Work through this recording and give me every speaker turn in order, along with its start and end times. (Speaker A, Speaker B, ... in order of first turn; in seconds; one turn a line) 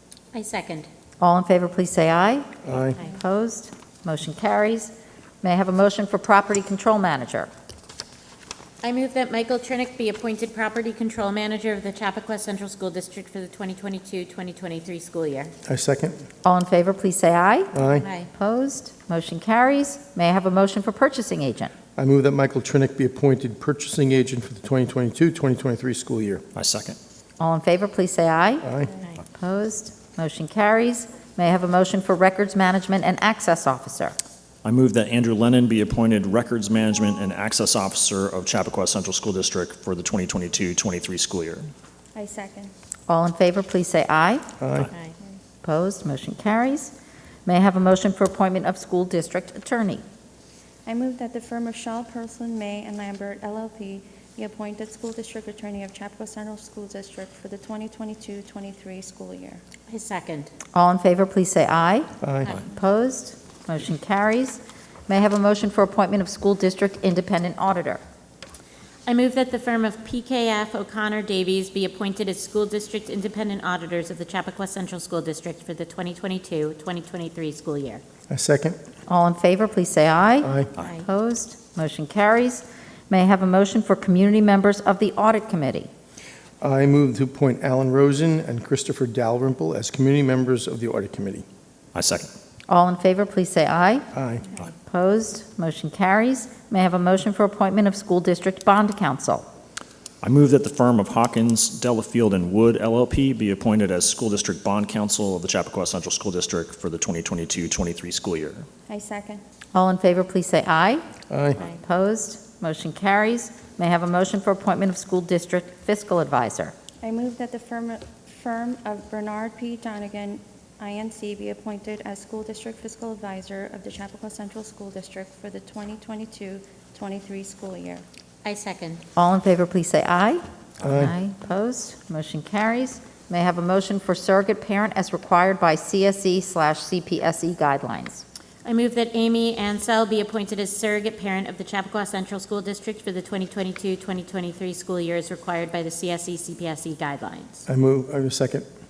Speaker A: 0.3-0.9
Speaker B: 1.2-7.5
Speaker C: 2.6-3.0
Speaker A: 8.8-15.5
Speaker C: 15.7-16.2
Speaker B: 16.4-17.7
Speaker C: 17.7-18.1
Speaker A: 18.0-18.3
Speaker B: 18.3-21.7
Speaker C: 21.9-26.4
Speaker D: 26.5-27.0
Speaker B: 27.4-28.7
Speaker C: 28.6-28.9
Speaker B: 29.4-34.1
Speaker D: 34.6-41.7
Speaker E: 42.1-42.7
Speaker B: 43.1-44.4
Speaker C: 44.6-44.9
Speaker B: 45.6-46.9
Speaker B: 47.5-50.0
Speaker E: 50.8-59.6
Speaker A: 59.9-60.5
Speaker B: 60.7-62.1
Speaker C: 62.2-62.5
Speaker B: 62.6-68.0
Speaker A: 69.1-78.0
Speaker C: 78.3-78.8
Speaker B: 79.1-85.9
Speaker C: 80.4-80.7
Speaker A: 80.8-81.0
Speaker C: 86.6-91.5
Speaker D: 91.9-92.3
Speaker B: 92.7-94.1
Speaker C: 94.1-94.5
Speaker B: 94.6-99.5
Speaker D: 100.2-108.7
Speaker E: 108.9-109.4
Speaker B: 109.7-111.0
Speaker C: 111.3-111.6
Speaker B: 111.6-116.7
Speaker E: 117.0-128.0
Speaker A: 128.4-129.0
Speaker B: 129.2-138.2
Speaker C: 130.8-131.1
Speaker A: 138.6-147.6
Speaker C: 147.7-148.7